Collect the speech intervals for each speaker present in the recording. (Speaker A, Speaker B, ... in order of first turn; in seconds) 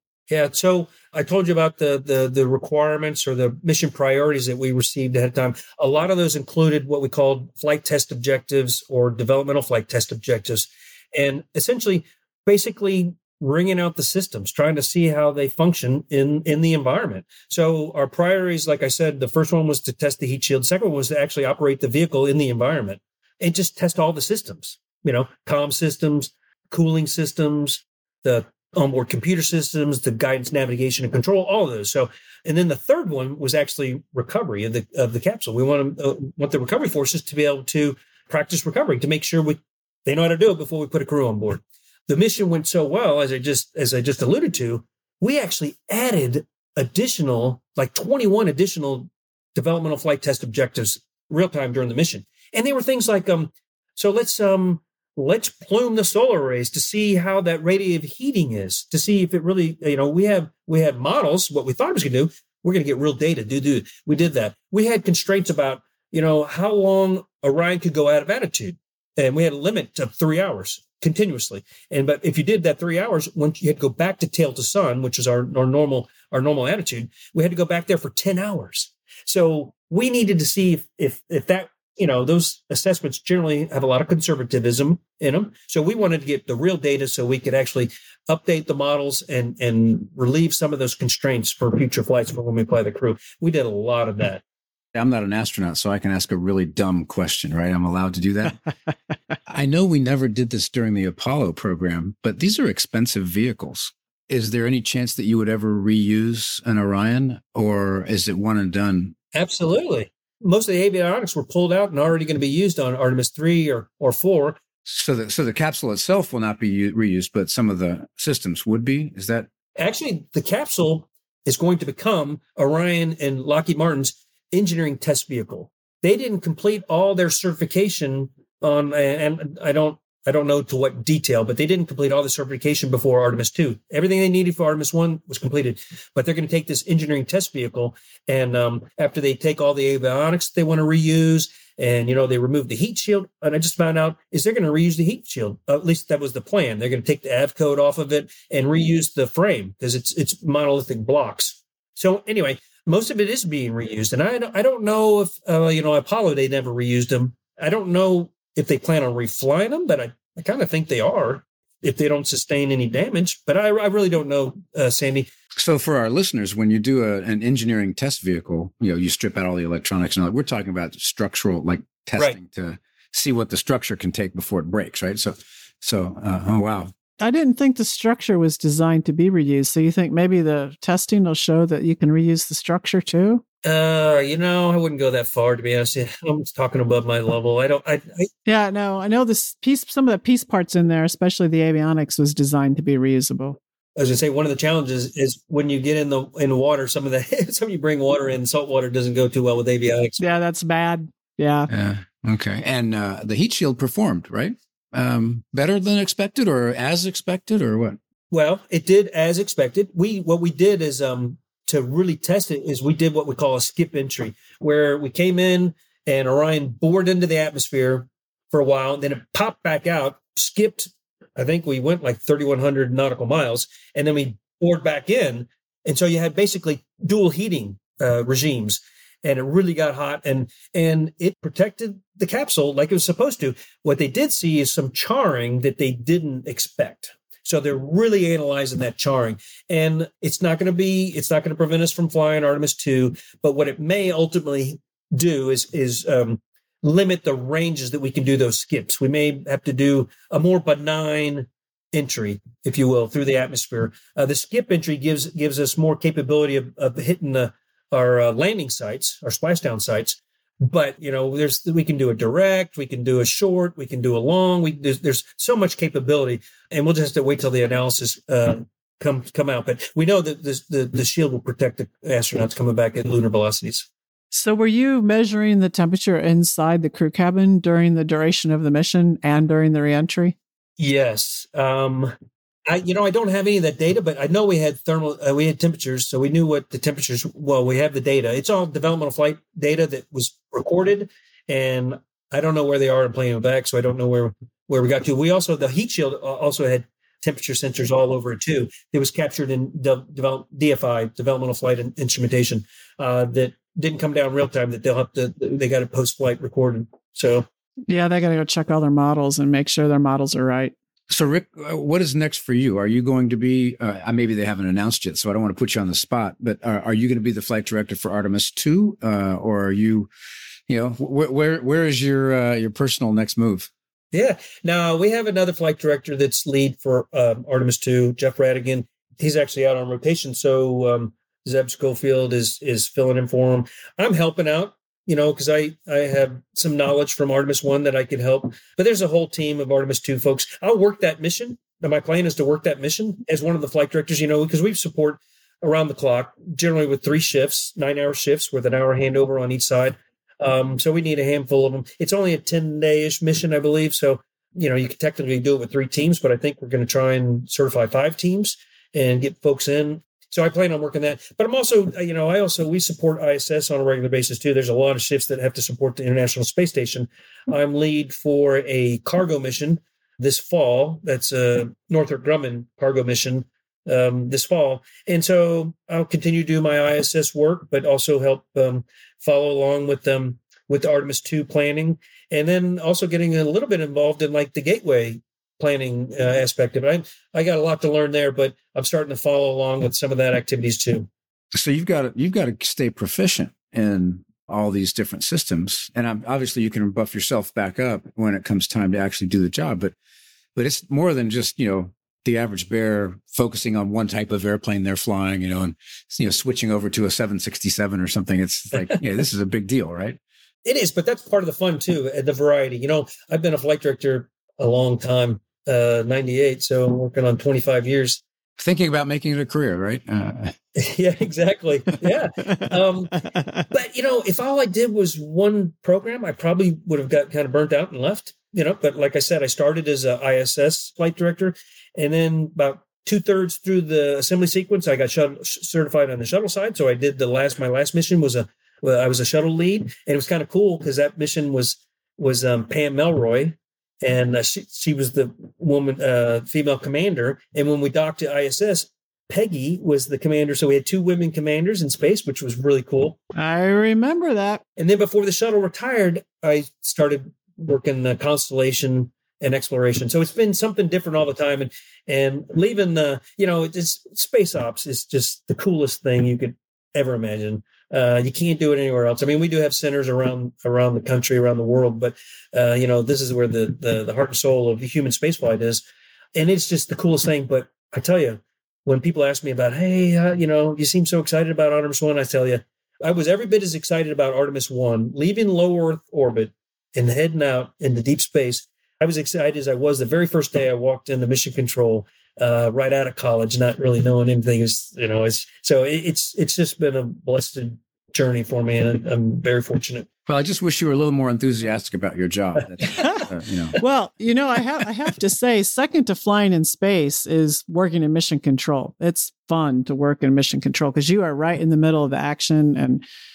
Speaker A: 0.3-94.4, 109.3-114.6, 119.8-165.3, 183.6-188.3, 193.9-200.2, 208.3-273.9, 280.8-282.1, 282.7-307.4, 324.1-391.1, 410.6-418.2, 420.8-453.2, 454.8-475.8, 476.3-500.1
Speaker B: 94.9-98.6, 99.5-109.1, 114.8-119.5, 165.6-176.9, 201.7-208.0, 311.1-320.1, 320.7-323.7, 391.5-399.9, 400.5-410.2, 418.6-420.6, 500.2-503.8
Speaker C: 177.2-183.4, 188.4-193.6, 200.2-201.7, 274.3-280.4, 307.9-310.7, 453.3-454.6, 503.0-503.2, 503.8-513.0